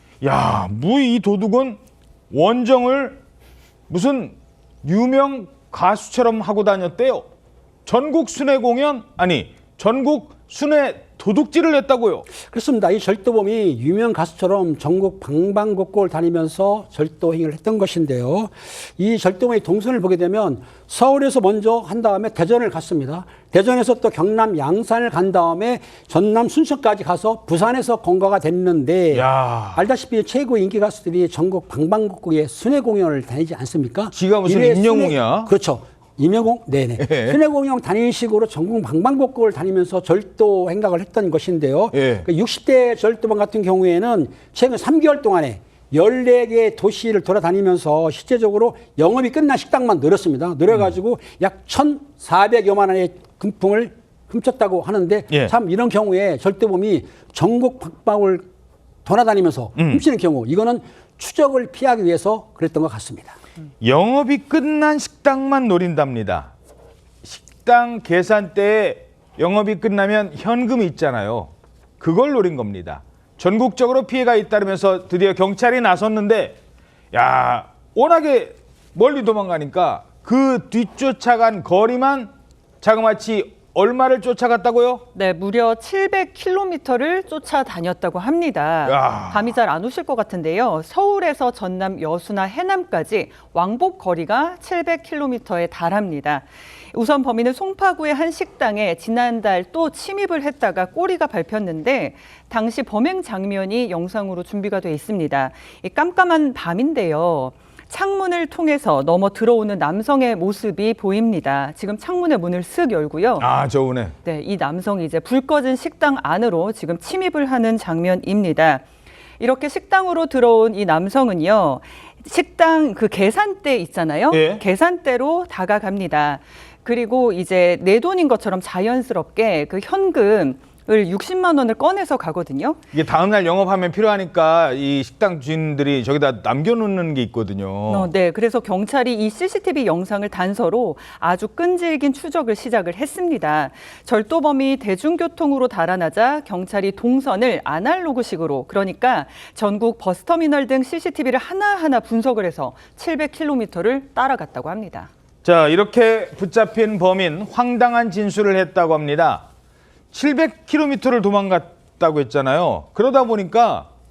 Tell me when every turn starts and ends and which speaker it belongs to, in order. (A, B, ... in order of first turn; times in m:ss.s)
0:00.2-0:01.8 A
0:02.3-0:03.2 A
0:03.9-0:07.2 A
0:07.8-0:12.3 A
0:12.4-0:58.5 B
0:29.1-0:29.8 A
0:34.1-0:35.5 A
0:37.0-0:37.4 A
0:41.9-0:42.3 A
0:59.0-1:03.4 B
0:59.8-1:00.0 A
1:03.8-1:06.5 A
1:07.2-1:16.6 A
1:17.1-1:25.0 A
1:25.1-1:53.5 C
1:28.9-1:29.6 A
1:53.4-1:54.1 A
1:54.2-1:58.8 C
1:59.4-2:12.8 C
2:04.3-2:04.6 A
2:12.9-2:18.1 A
2:17.9-2:35.1 C
2:35.4-2:39.4 A
2:40.1-2:43.9 A